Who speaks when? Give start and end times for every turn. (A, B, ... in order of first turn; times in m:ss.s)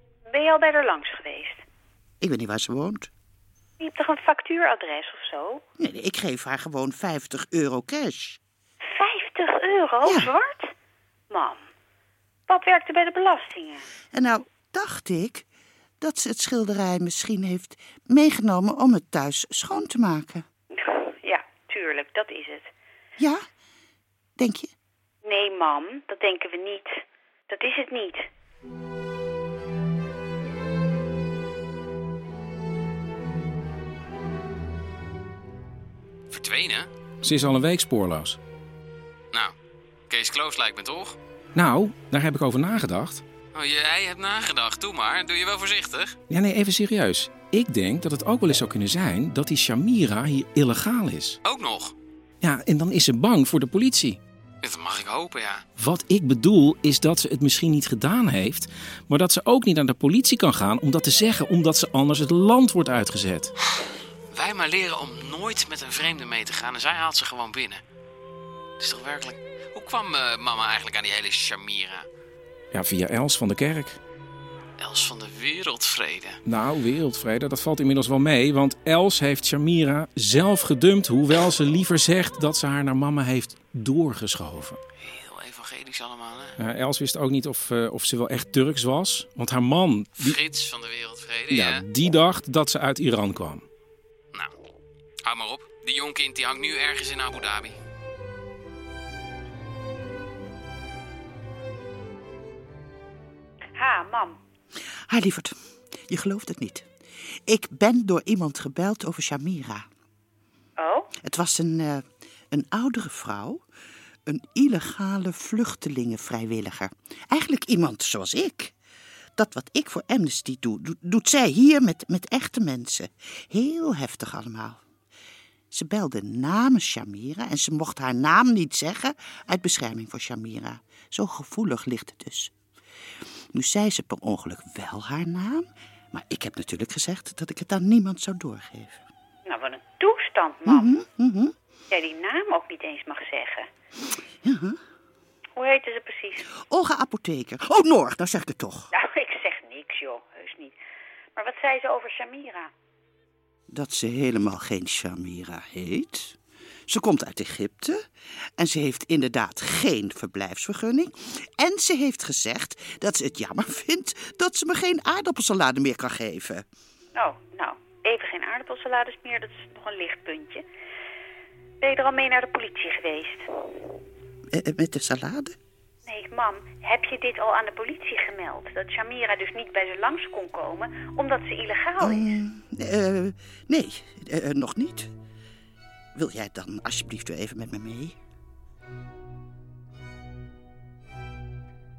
0:00.3-0:01.6 A
0:02.2-0:03.1 B
0:03.8-0:05.6 A
0:05.8-0:08.4 B
0:08.9-0:10.7 A
0:10.0-0:10.3 B
0:11.3-0:11.6 A
0:12.5-0:13.9 A
0:14.1-0:15.4 B
0:16.0-0:20.4 B
0:20.7-0:22.7 A
0:23.2-0:23.4 B
0:24.4-0:24.7 B
0:25.2-0:28.3 A
0:36.3-0:36.9 C
0:37.2-0:38.4 D
0:40.1-0:41.2 C
0:41.6-0:43.2 D
0:43.5-0:46.2 C
0:46.3-0:51.4 D
0:51.4-0:51.9 C
0:52.4-0:54.2 D
0:54.6-0:55.6 C
0:55.8-1:03.5 D
1:04.3-1:07.8 C
1:08.8-1:12.1 C
1:12.7-1:14.0 D
1:14.8-1:16.4 C
1:16.4-1:24.8 D
1:25.0-1:26.6 C
1:26.6-1:30.4 D
1:30.2-1:31.8 C
1:31.5-1:33.6 D
1:35.2-1:37.8 C
1:43.8-1:44.4 A
1:45.1-1:45.6 B
1:46.1-1:46.9 B
1:47.4-1:49.9 B
1:50.8-1:51.1 A
1:51.2-1:53.6 B
1:54.3-1:58.7 B
1:59.4-2:04.8 B
2:05.7-2:12.5 B
2:13.5-2:19.0 B
2:19.4-2:20.9 A
2:20.6-2:21.5 B
2:21.9-2:23.7 A
2:24.4-2:24.8 B
2:25.6-2:26.5 A
2:26.5-2:28.9 B
2:28.9-2:30.7 A
2:31.4-2:32.7 A
2:33.7-2:46.6 B
2:47.1-2:50.6 A
2:51.8-2:53.5 A
2:54.5-2:55.6 B
2:56.1-3:02.3 A
3:02.0-3:05.1 B
3:06.1-3:08.2 B